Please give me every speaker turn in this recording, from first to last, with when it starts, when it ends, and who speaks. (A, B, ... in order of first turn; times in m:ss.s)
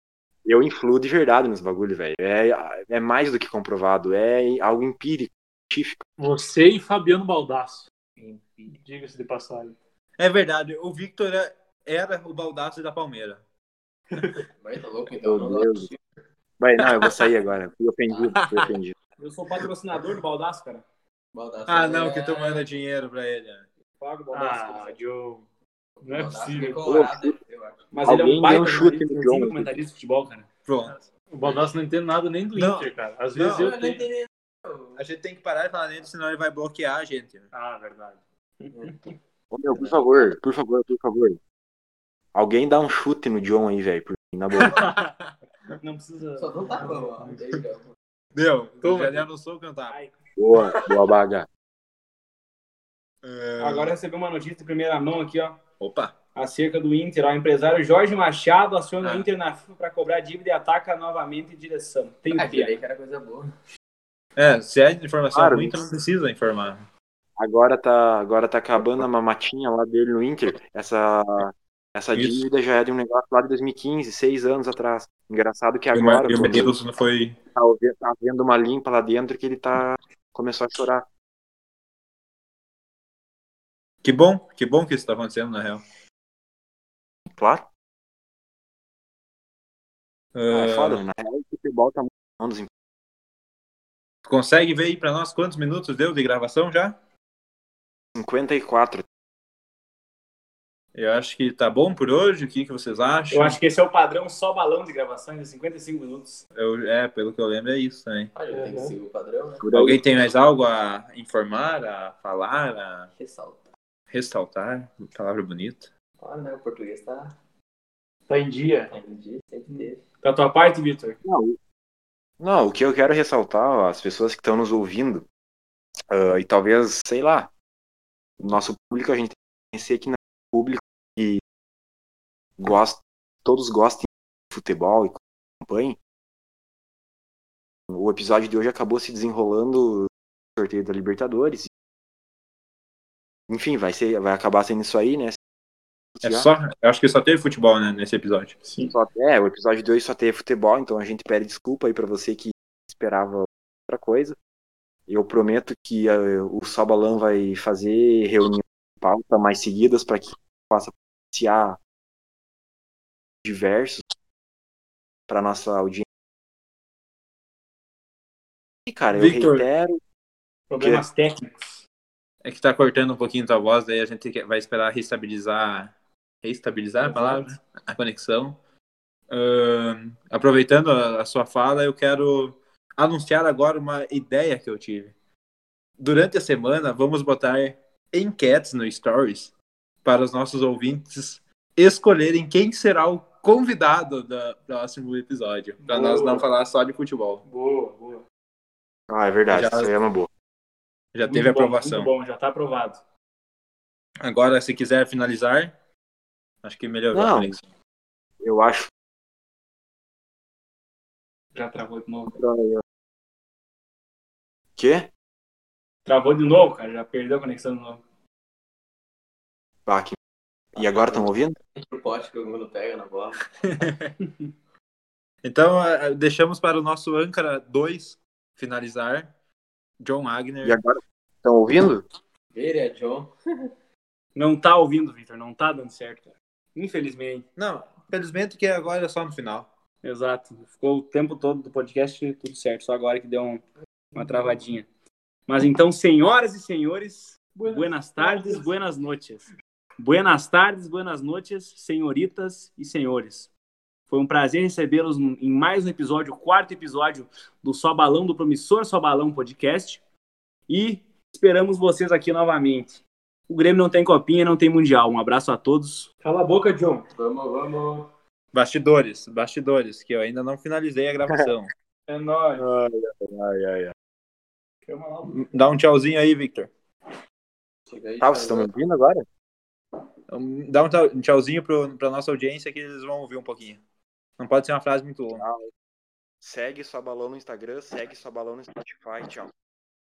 0:00.4-0:06.0 A
0:06.2-0:07.9 B
0:08.2-0:08.7 C
0:08.7-0:09.8 B
0:10.2-0:13.4 D
0:14.6-0:16.0 C
0:15.2-0:15.9 A
0:16.6-0:18.9 A
0:16.8-0:17.1 D
0:18.1-0:18.4 C
0:18.4-0:18.7 D
0:19.2-0:20.8 E
0:21.3-0:22.6 C
0:21.7-0:23.7 D
0:24.0-0:25.0 E
0:24.3-0:25.4 B
0:26.0-0:27.9 C
0:26.0-0:26.8 B
0:26.9-0:27.4 A
0:27.9-0:30.5 E
0:28.0-0:29.7 A
0:30.7-0:30.9 D
0:31.3-0:34.1 B
0:32.6-0:33.8 D
0:33.5-0:35.0 C
0:35.0-0:37.5 D
0:37.5-0:38.2 B
0:39.5-0:41.4 A
0:39.7-0:40.3 C
0:42.3-0:44.9 A
0:44.6-0:45.0 D
0:45.8-0:46.9 E
0:46.4-0:47.9 C
0:48.4-0:50.0 D
0:48.8-0:49.2 B
0:49.9-0:50.1 E
0:50.4-0:51.5 A
0:53.2-0:54.0 D
0:53.6-0:55.6 E
0:55.8-0:56.2 D
0:56.4-1:02.8 E
0:59.0-0:59.3 D
1:02.3-1:03.5 C
1:04.4-1:06.9 D
1:05.3-1:05.8 A
1:07.4-1:16.7 A
1:12.1-1:12.4 D
1:15.9-1:17.4 D
1:17.6-1:21.1 A
1:24.0-1:25.8 D
1:27.3-1:27.7 A
1:30.4-1:31.0 D
1:30.5-1:32.7 A
1:34.2-1:37.0 D
1:38.2-1:39.0 A
1:41.0-1:43.6 D
1:43.3-1:46.4 E
1:46.6-1:48.3 D
1:48.4-1:49.7 C
1:48.5-1:48.9 B
1:49.6-1:50.2 A
1:49.7-1:53.1 D
1:53.2-1:53.7 C
1:54.1-1:55.9 D
1:56.2-1:57.4 C
1:58.3-1:58.9 B
1:58.9-2:00.0 C
2:00.2-2:01.2 B
2:01.2-2:01.6 A
2:02.4-2:05.3 A
2:06.1-2:07.5 A
2:08.4-2:11.4 A
2:12.6-2:16.0 A
2:17.9-2:21.7 A
2:23.5-2:25.4 A
2:26.2-2:26.5 A
2:26.2-2:28.6 D
2:28.7-2:28.9 B
2:28.9-2:34.4 A
2:35.1-2:41.8 A
2:43.4-2:44.0 A
2:45.3-2:46.1 A
2:48.9-2:50.0 A
2:49.1-2:49.7 D
2:50.7-2:51.8 E
2:50.8-2:51.1 A
2:52.4-2:55.9 D
2:56.4-2:58.6 D
2:59.3-3:05.1 D
3:06.0-3:09.5 D
3:10.0-3:17.4 D
3:15.9-3:16.4 E
3:17.6-3:18.2 B
3:19.1-3:20.3 A
3:19.5-3:19.9 D
3:21.1-3:22.1 D
3:21.3-3:23.0 E
3:24.2-3:25.7 D
3:26.6-3:27.6 D
3:27.1-3:27.5 A
3:28.4-3:28.9 A
3:31.5-3:32.4 E
3:32.3-3:32.8 A
3:34.8-3:35.1 A
3:36.0-3:38.0 E
3:39.9-3:40.2 A
3:40.8-3:41.6 A
3:40.8-3:43.5 C
3:43.8-3:44.1 D
3:45.4-3:49.3 D
3:50.0-3:50.8 D
3:50.6-3:52.1 A
3:52.6-3:53.7 C
3:54.4-3:57.5 E
3:57.6-3:59.7 D
4:00.0-4:03.6 E
4:00.2-4:00.6 B
4:04.2-4:04.9 E
4:05.5-4:09.5 E
4:07.6-4:08.6 B
4:10.0-4:13.5 E
4:14.1-4:20.0 E
4:20.7-4:26.1 E
4:26.2-4:27.0 B
4:27.2-4:28.1 C
4:28.5-4:31.7 D
4:32.1-4:32.6 B
4:32.6-4:33.9 A
4:34.9-4:35.4 B
4:35.3-4:36.7 D
4:37.9-4:38.7 C
4:38.2-4:39.3 A
4:40.3-4:43.8 D
4:44.4-4:45.4 D
4:45.4-4:45.7 A
4:46.4-4:49.5 A